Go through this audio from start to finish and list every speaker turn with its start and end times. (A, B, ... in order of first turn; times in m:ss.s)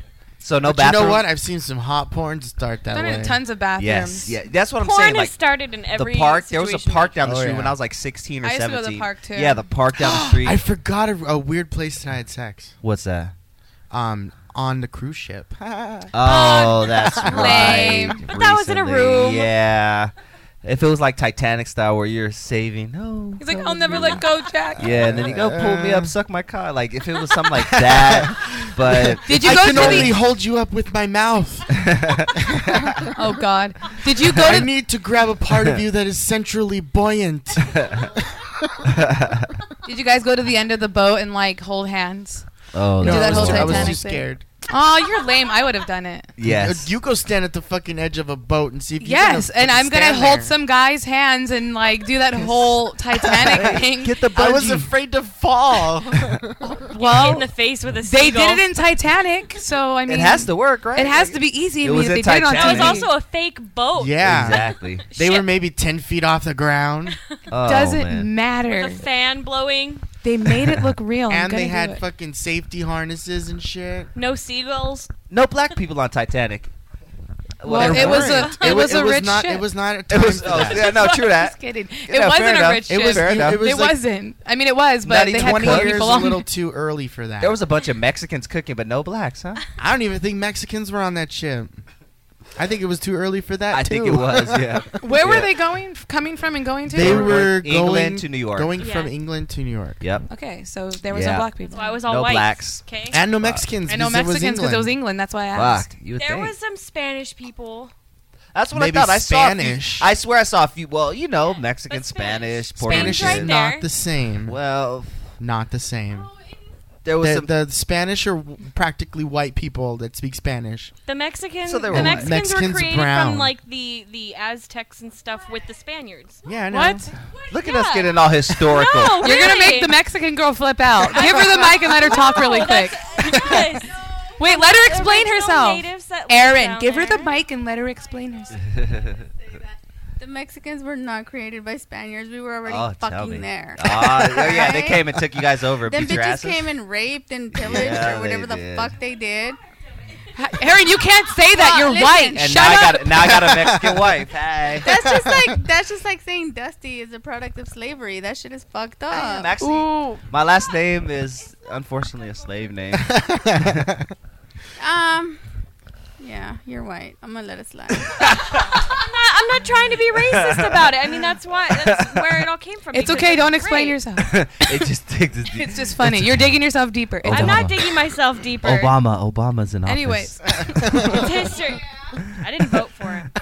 0:00.4-0:01.2 A
0:00.6-0:03.4 B
0:02.9-0:04.4 C
0:03.8-0:05.4 A
0:04.8-0:07.2 D
0:05.9-0:10.6 A
0:07.2-0:07.8 B
0:08.4-0:09.7 C
0:10.0-0:12.8 B
0:12.8-0:13.3 A
0:13.9-0:16.1 B
0:16.1-0:20.1 A
0:16.2-0:18.2 C
0:17.0-0:18.0 B
0:18.3-0:19.5 D
0:20.6-0:24.2 A
0:23.4-0:24.9 C
0:24.8-0:26.1 B
0:24.8-0:30.2 A
0:27.6-0:28.4 B
0:28.9-0:31.8 B
0:29.2-0:30.1 C
0:31.8-0:32.3 A
0:32.5-0:33.0 B
0:33.2-0:34.7 C
0:34.3-0:38.5 B
0:38.9-0:39.4 A
0:39.9-0:42.5 C
0:42.7-0:44.0 A
0:43.0-0:44.4 B
0:43.0-0:46.3 C
0:46.4-0:46.9 A
0:46.4-0:50.6 B
0:49.0-0:54.2 C
0:53.3-0:56.8 B
0:53.5-0:54.9 A
0:56.9-0:57.4 C
0:57.0-0:58.6 D
0:58.0-1:03.1 C
1:00.1-1:03.1 A
1:02.5-1:05.5 D
1:04.0-1:07.2 B
1:04.2-1:05.1 A
1:07.5-1:08.3 A
1:07.6-1:09.0 C
1:08.7-1:10.0 D
1:10.2-1:12.0 C
1:11.3-1:14.1 B
1:14.2-1:15.1 D
1:15.3-1:16.7 A
1:17.6-1:18.9 A
1:17.6-1:19.7 C
1:17.7-1:20.9 B
1:20.1-1:23.7 A
1:20.6-1:26.5 C
1:22.9-1:24.0 B
1:25.0-1:26.1 A
1:25.3-1:27.6 B
1:27.4-1:29.6 A
1:29.8-1:31.8 B
1:32.6-1:34.8 B
1:33.7-1:35.5 A
1:35.0-1:37.4 C
1:36.9-1:38.8 A
1:36.9-1:40.0 B
1:38.8-1:39.1 D
1:40.3-1:42.0 C
1:41.1-1:41.5 A
1:41.7-1:43.2 D
1:42.1-1:42.8 A
1:43.1-1:44.9 B
1:43.4-1:43.6 A
1:43.9-1:45.9 C
1:45.5-1:46.5 A
1:46.2-1:47.9 D
1:48.6-1:53.6 A
1:48.7-1:50.1 B
1:51.9-1:53.8 D
1:52.8-1:54.6 B
1:54.5-1:55.3 A
1:55.4-1:56.3 B
1:57.0-1:57.5 A
1:57.2-2:00.9 B
2:01.1-2:06.4 D
2:01.6-2:02.3 A
2:01.9-2:03.5 B
2:06.4-2:07.1 B
2:06.7-2:07.1 C
2:07.5-2:09.3 A
2:07.6-2:10.0 D
2:09.2-2:13.6 C
2:11.1-2:17.4 D
2:14.4-2:18.6 C
2:18.7-2:19.2 A
2:20.2-2:25.2 E
2:22.7-2:26.7 A
2:25.9-2:29.6 E
2:27.6-2:29.0 A
2:30.4-2:33.1 C
2:31.5-2:32.8 E
2:32.3-2:34.9 A
2:33.3-2:34.2 B
2:34.8-2:35.5 B
2:34.8-2:39.8 E
2:39.1-2:43.1 A
2:39.6-2:40.2 C
2:42.9-2:44.0 B
2:44.8-2:45.4 E
2:46.2-2:48.3 E
2:48.3-2:48.6 A
2:48.7-2:54.0 D
2:50.2-2:50.9 A
2:51.7-2:52.2 A
2:52.9-2:54.3 C
2:54.2-2:56.5 A
2:55.5-2:57.7 C
2:57.2-2:57.8 A
2:57.3-2:59.0 D
2:58.6-3:01.1 A
2:59.9-3:00.8 C
3:00.8-3:01.2 B
3:01.1-3:03.3 D